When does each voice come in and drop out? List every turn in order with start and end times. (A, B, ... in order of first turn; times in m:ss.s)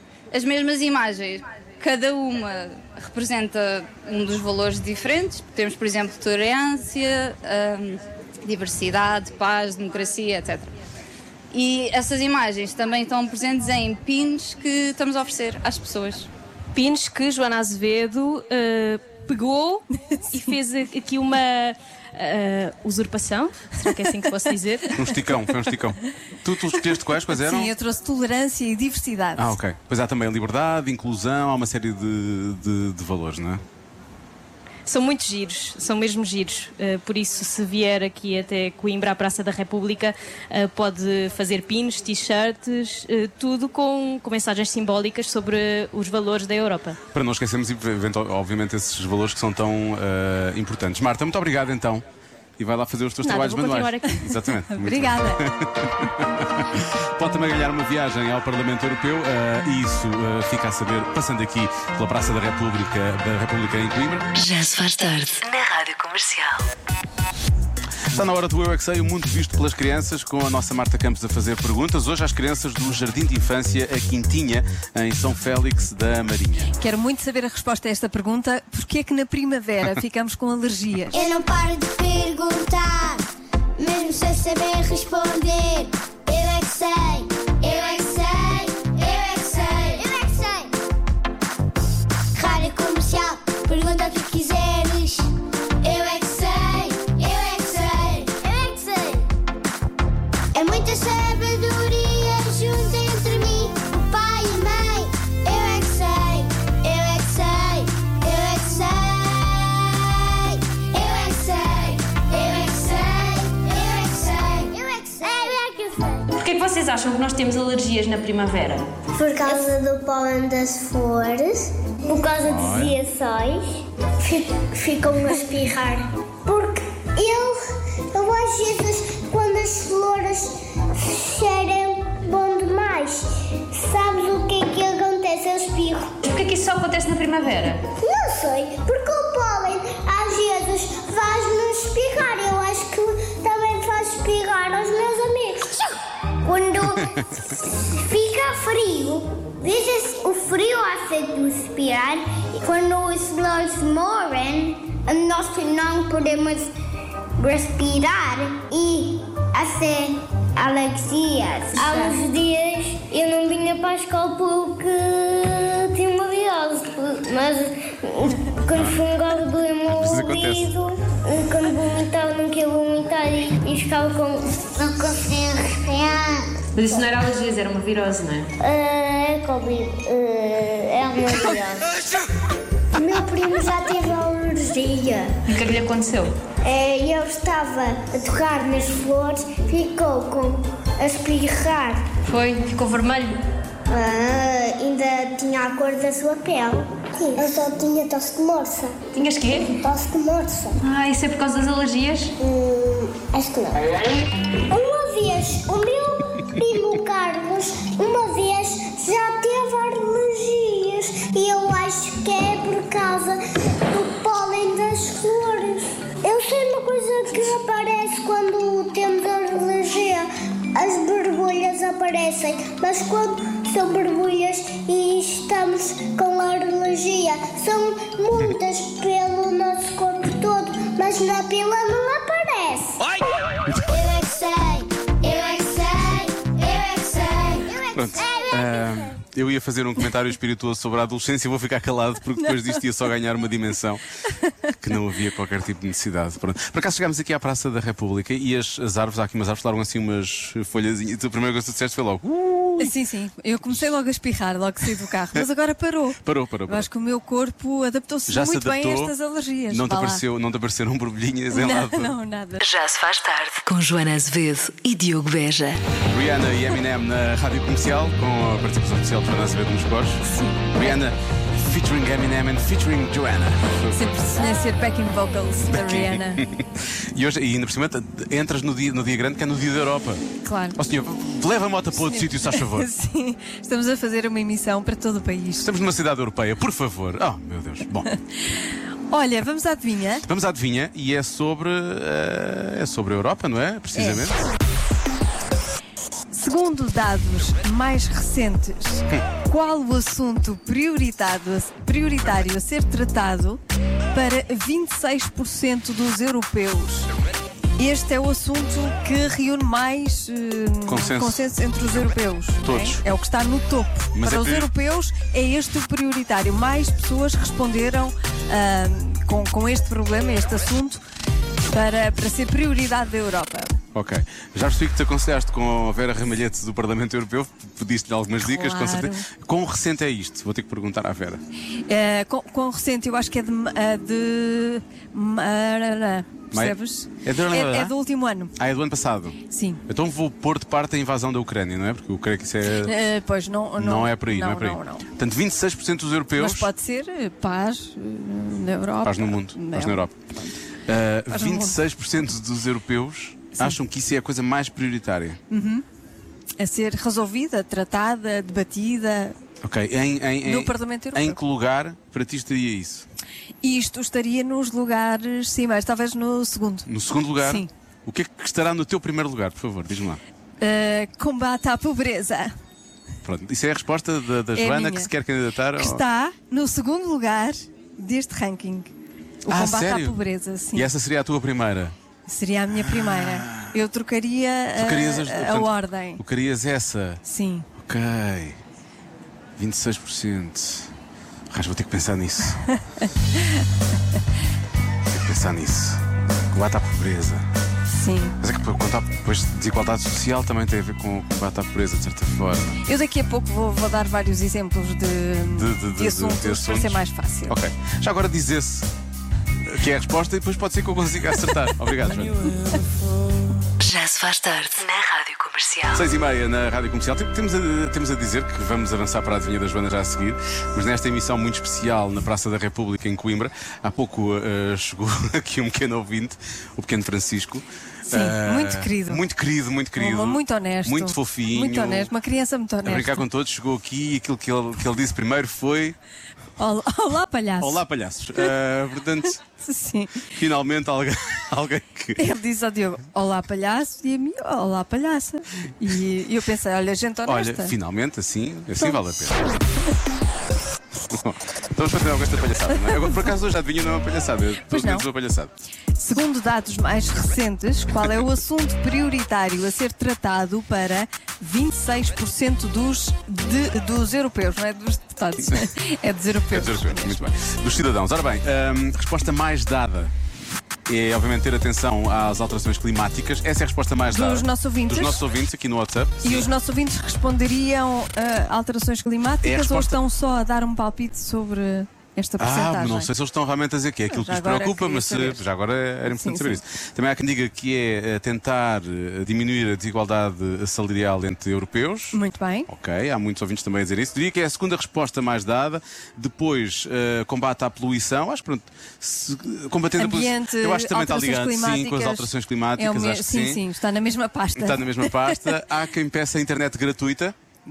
0:00.3-0:10.7 A
0:11.5-0:16.3 A
0:16.7-0:25.0 B
0:20.1-0:20.5 C
0:24.9-0:27.7 D
0:26.8-0:29.5 C
0:29.4-0:33.6 D
0:34.8-0:47.0 B
0:47.1-0:52.0 D
0:52.6-1:04.3 D
0:53.2-0:54.3 B
0:54.7-0:55.4 C
1:04.4-1:06.7 E
1:08.1-1:16.7 D
1:16.8-1:21.2 C
1:21.1-1:23.2 F
1:23.8-1:30.7 F
1:32.3-1:35.3 F
1:35.8-1:39.3 F
1:40.5-1:56.3 F
1:56.4-1:58.9 G
1:59.1-2:03.6 F
2:02.4-2:03.0 D
2:04.2-2:07.6 F
2:08.1-2:16.2 F
2:16.2-2:17.9 G
2:18.0-2:25.8 F
2:26.4-2:36.7 F
2:37.4-2:57.0 F
2:48.7-2:49.0 D
2:49.9-2:50.7 D
2:56.8-2:58.5 G
2:58.6-3:01.8 F
3:02.9-3:05.4 F
3:05.5-3:06.4 G
3:06.6-3:12.1 F
3:12.2-3:13.4 G
3:13.9-3:20.8 F
3:19.1-3:19.8 G
3:20.8-3:22.3 G
3:22.4-3:23.9 F
3:24.7-3:53.0 F
3:53.9-3:59.1 F
3:57.9-4:04.0 D
4:02.4-4:02.8 C
4:04.8-4:12.9 D
4:12.8-4:20.2 C
4:16.2-4:16.9 D
4:18.3-4:19.1 D
4:19.7-4:22.1 D
4:21.5-4:22.6 C
4:22.6-4:25.8 E
4:26.1-4:34.1 D
4:30.2-4:30.7 C
4:33.9-4:36.4 C
4:35.7-4:42.9 D
4:40.4-4:40.8 C
4:42.0-4:45.7 C
4:45.6-4:48.1 D
4:49.1-4:50.2 C
4:50.2-4:54.4 D
4:53.9-4:54.2 C
4:56.3-5:03.6 C
5:04.1-5:07.1 C
5:07.8-5:21.0 C
5:10.8-5:11.5 D
5:12.6-5:13.0 D
5:14.1-5:14.7 D
5:21.6-5:23.7 C
5:23.9-5:31.4 D
5:28.4-5:29.3 C
5:31.9-5:38.5 C
5:36.5-5:37.9 D
5:38.6-5:42.9 D
5:39.5-5:39.8 C
5:42.8-5:45.0 C
5:43.8-5:46.7 D
5:46.4-5:50.6 C
5:49.0-5:50.2 D
5:50.8-5:55.4 D
5:51.3-5:51.8 C
5:55.5-5:55.8 C
5:56.6-5:59.4 C
5:59.6-6:03.0 D
6:00.4-6:01.4 C
6:03.6-6:07.7 C
6:06.9-6:10.2 D
6:10.6-6:12.5 C
6:13.2-6:16.0 D
6:14.5-6:15.1 C
6:15.8-6:18.9 C
6:19.4-6:20.9 C
6:19.5-6:20.2 D
6:20.7-6:21.9 D
6:22.3-6:26.2 C
6:22.8-6:23.7 D
6:24.7-6:27.2 D
6:27.2-6:27.7 C
6:27.8-6:28.6 D
6:29.6-6:30.9 D
6:31.5-6:32.6 D
6:32.7-6:33.1 C
6:35.1-6:37.4 D
6:37.9-6:38.4 C
6:38.4-6:42.8 D
6:42.8-6:47.6 C
6:45.5-6:48.9 D
6:49.6-6:53.1 D
6:52.4-6:52.8 C
6:53.8-6:56.0 E
6:55.9-7:12.1 D
7:08.1-7:09.2 C
7:09.9-7:13.2 C
7:12.8-7:16.0 D
7:16.6-7:17.8 C
7:17.6-7:19.4 D
7:19.6-7:20.3 C
7:20.3-7:22.2 D
7:22.2-7:27.7 C
7:27.2-7:29.5 D
7:31.1-7:35.5 D
7:32.8-7:33.3 C
7:34.6-7:35.0 C
7:36.0-7:47.3 C
7:45.4-7:45.7 D
7:46.5-7:50.1 D
7:50.9-7:56.5 D
7:54.1-7:55.2 C
7:56.2-8:03.1 C
7:59.4-8:00.0 D
8:02.4-8:23.6 D
8:04.1-8:05.4 C
8:06.0-8:06.6 C
8:12.1-8:12.7 C
8:20.0-8:25.6 C
8:24.6-8:27.3 D